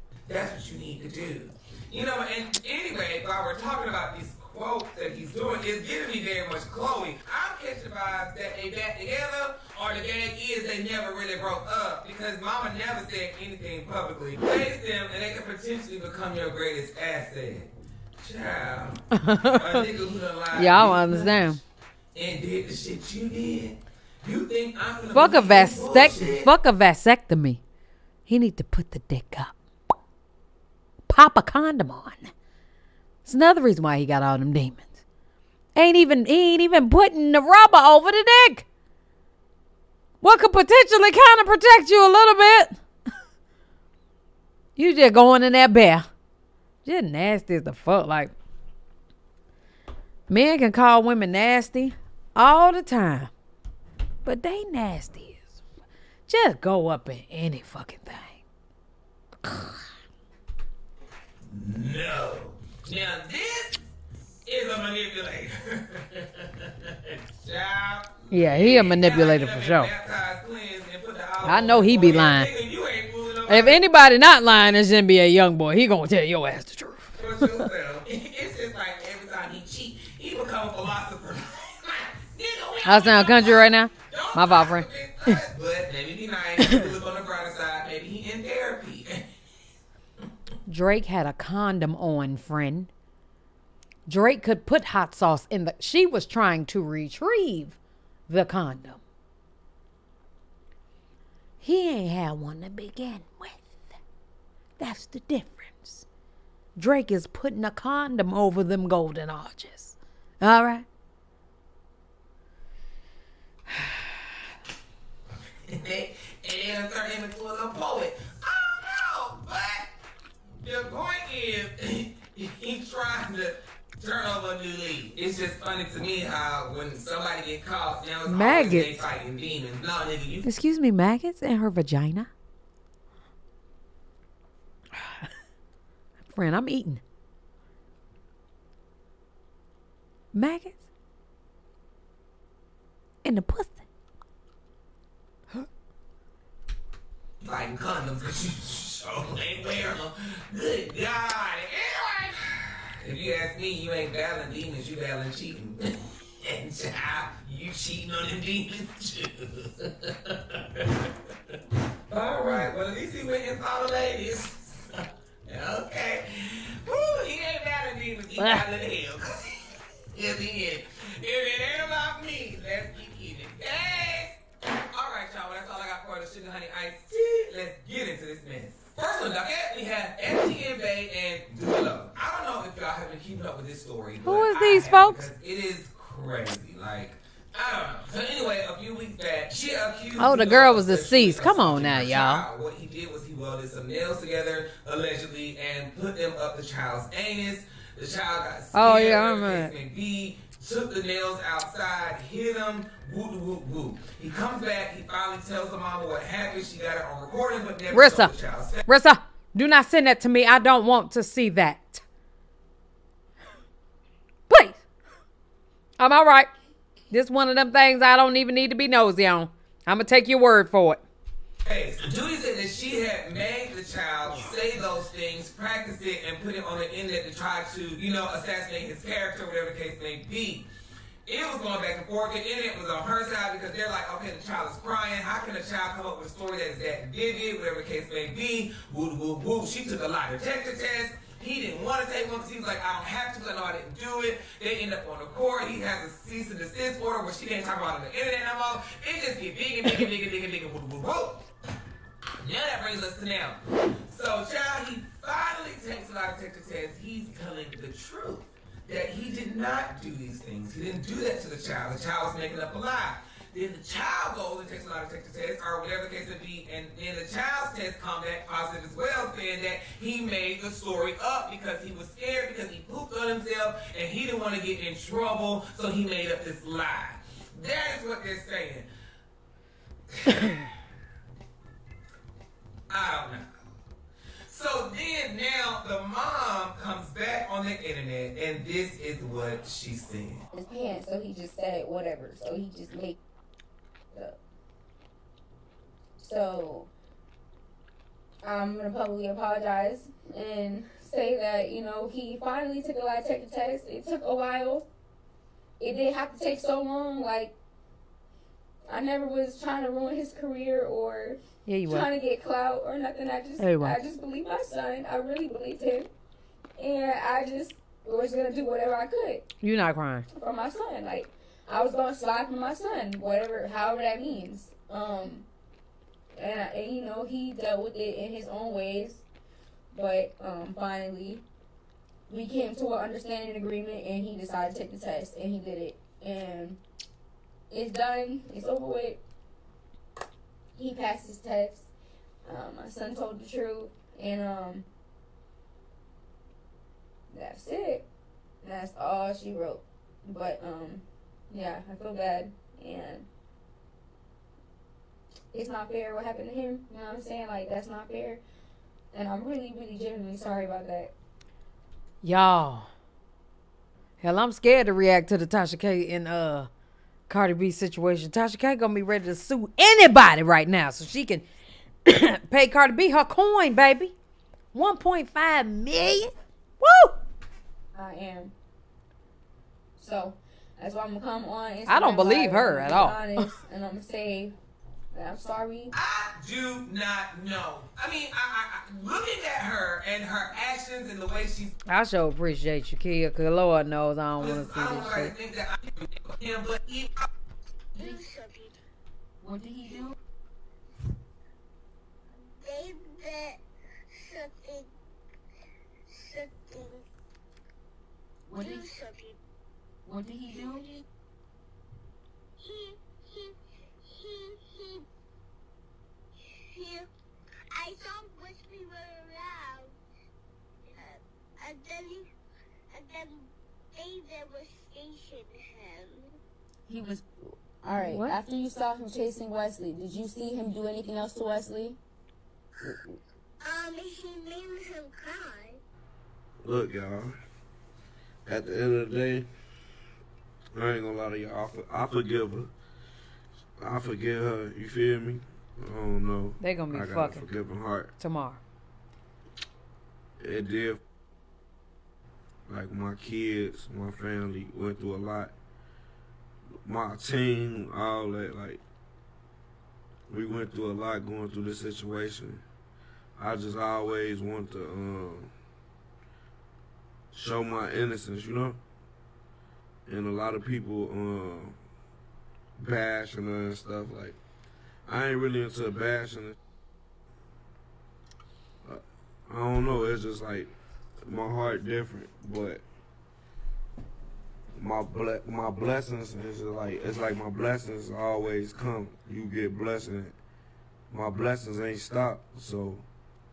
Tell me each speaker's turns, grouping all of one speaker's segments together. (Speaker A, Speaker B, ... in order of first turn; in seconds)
Speaker A: 0.3-21.5, 22.1-26.5, 61.5-63.8, 64.5-73.8, 77.2-89.2, 115.7-119.9, 120.6-130.4, 147.4-161.5, 162.1-174.4, 174.9-208.9, 221.6-230.7, 231.2-251.4, 252.4-278.9, 280.1-280.7, 282.9-283.5, 284.5-290.4, 385.9-391.7, 394.4-397.3
Speaker B: 19.1-19.8, 20.5-21.6, 25.1-27.6, 28.3-29.5, 31.1-32.3, 33.2-34.9, 35.7-38.6, 40.2-42.8, 44.8-46.1, 46.8-48.3, 50.3-53.3, 54.2-55.6, 56.3-58.4, 59.4-59.8, 68.3-69.9, 71.4-72.5, 73.5-77.6, 82.8-85.4, 90.7-92.9, 94.1-97.8, 98.3-99.0, 101.6-103.7, 104.8-106.0, 106.8-110.8, 113.7-114.1, 128.2-129.0, 130.4-132.3, 134.9-135.3, 136.2-137.0, 140.3-140.8, 143.2-143.8, 168.4-168.6, 184.2-185.2, 190.2-192.4, 198.7-199.7, 207.9-208.3, 208.9-212.0, 214.5-214.8, 216.0-216.5, 217.1-221.0, 311.6-312.1, 313.6-314.0, 319.6-320.2, 362.2-362.9, 364.2-366.7, 367.3-371.4, 372.1-374.1, 374.7-377.2, 381.9-383.6, 391.9-395.3, 427.9-428.4, 446.6-447.4, 448.2-448.6
Speaker C: 290.5-293.2, 294.1-294.4, 296.2-296.9, 298.4-304.9, 305.8-307.5, 308.9-316.1, 316.8-319.4, 320.3-325.4, 326.3-329.2, 329.9-331.4, 332.3-336.8, 337.7-339.2, 340.8-341.9, 342.4-344.9, 347.3-348.1, 348.6-353.3, 355.5-358.4, 359.1-361.1, 377.9-378.5, 380.0-384.5, 385.1-385.9, 399.4-400.1, 408.5-408.8, 410.1-410.9, 426.9-432.0
Speaker D: 397.9-398.8, 402.5-404.9, 406.1-407.0, 408.5-409.4, 410.5-411.0, 412.6-415.1, 416.7-417.1, 417.7-419.9, 420.9-422.3, 422.9-426.3, 433.6-435.8
Speaker E: 436.6-437.4, 438.4-439.5, 440.7-442.7, 443.8-448.1, 450.4-451.0, 452.7-455.5, 456.8-458.8, 460.3-462.6, 463.4-465.5, 467.3-468.8, 470.1-471.8, 472.8-474.4, 475.1-476.5, 478.8-480.7, 481.2-482.8, 484.7-490.3, 491.1-493.0